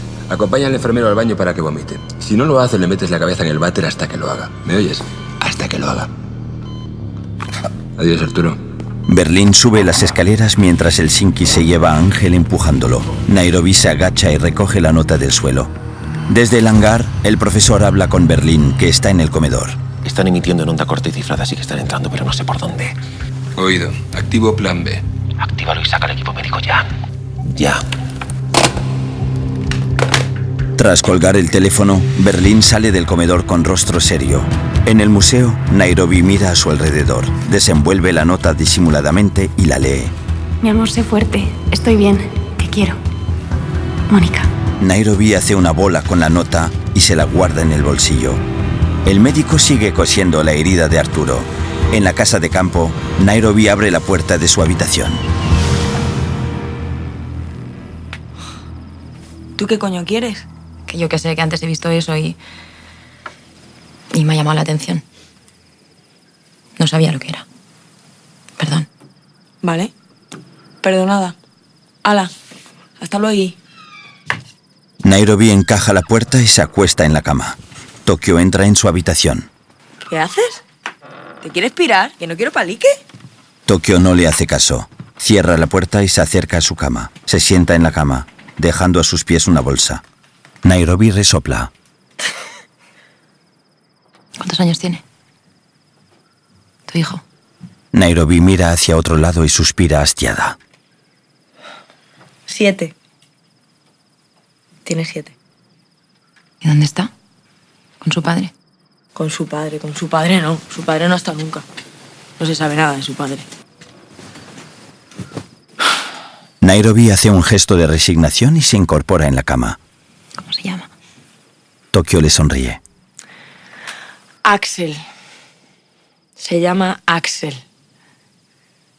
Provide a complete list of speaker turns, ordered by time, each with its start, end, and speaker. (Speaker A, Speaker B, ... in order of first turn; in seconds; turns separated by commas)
Speaker A: 0.3-5.0, Speaker B: 5.4-5.8, Speaker A: 8.0-8.6, Speaker C: 9.1-15.7, Speaker C: 16.3-19.8, Speaker B: 20.0-22.9, Speaker A: 23.6-25.0, Speaker B: 25.4-26.9, Speaker B: 27.5-27.8, Speaker C: 30.8-40.1, Speaker D: 40.6-43.0, Speaker D: 44.1-44.5, Speaker C: 44.8-48.4, Speaker C: 49.0-55.2, Speaker E: 59.6-60.4, Speaker F: 60.9-62.4, Speaker F: 64.1-65.0, Speaker F: 66.8-67.4, Speaker F: 68.6-68.9, Speaker E: 69.6-69.9, Speaker E: 70.8-71.3, Speaker E: 72.0-72.3, Speaker E: 73.0-73.5, Speaker C: 75.0-79.5, Speaker E: 80.0-80.6, Speaker E: 81.4-83.0, Speaker C: 83.7-90.0, Speaker C: 90.6-91.7, Speaker F: 94.4-95.0, Speaker F: 96.9-97.2, Speaker C: 97.9-100.6, Speaker E: 102.5-102.9, Speaker E: 104.8-105.3, Speaker F: 106.6-107.1, Speaker F: 108.0-108.5, Speaker E: 109.1-111.6, Speaker E: 112.4-113.5, Speaker C: 116.6-119.8, Speaker F: 120.4-120.8, Speaker C: 121.9-122.8, Speaker E: 124.4-125.0, Speaker E: 126.4-127.6